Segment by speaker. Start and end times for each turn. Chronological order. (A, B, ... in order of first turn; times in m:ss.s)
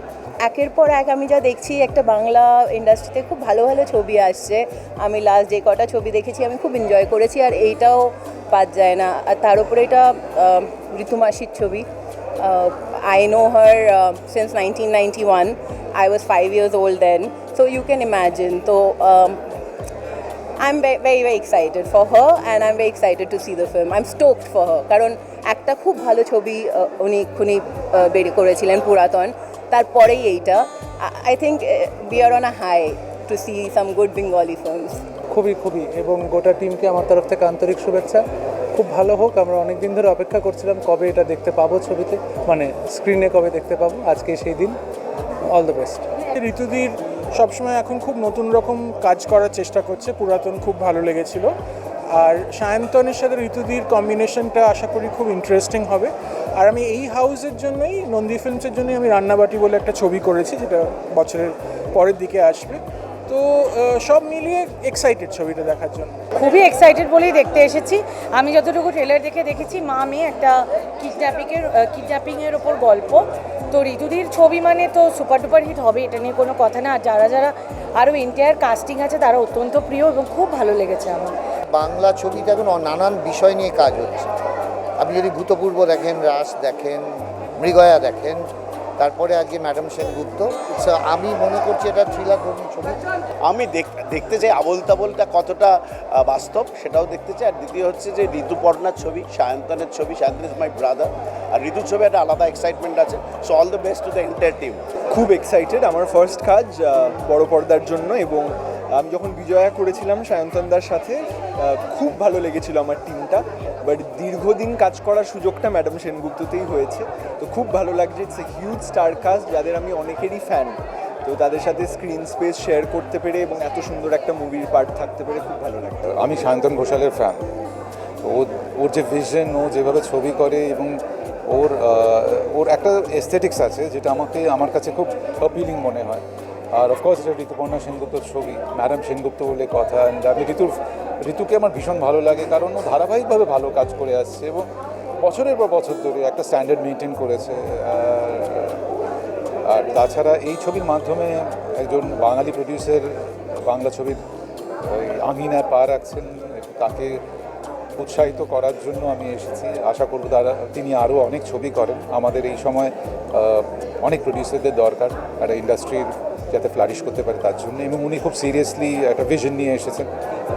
0:00.4-0:11.8 A
0:12.4-0:19.4 A
0:20.6-0:35.0 A
0:35.3-0:44.8 B
0:45.5-0:46.0 B
0:46.2-0:51.5 C
0:52.2-1:06.2 C
1:06.4-1:21.3 D
1:21.7-1:24.3 E
1:25.0-1:28.4 E
1:29.0-1:33.0 E
1:33.5-1:44.8 F
1:45.1-2:06.0 G
2:06.1-2:07.4 H
2:08.2-2:11.0 H
2:11.5-2:16.2 H
2:16.7-2:24.6 H
2:25.2-2:28.8 H
2:29.7-2:34.2 H
2:34.9-2:37.2 H
2:38.0-2:50.1 H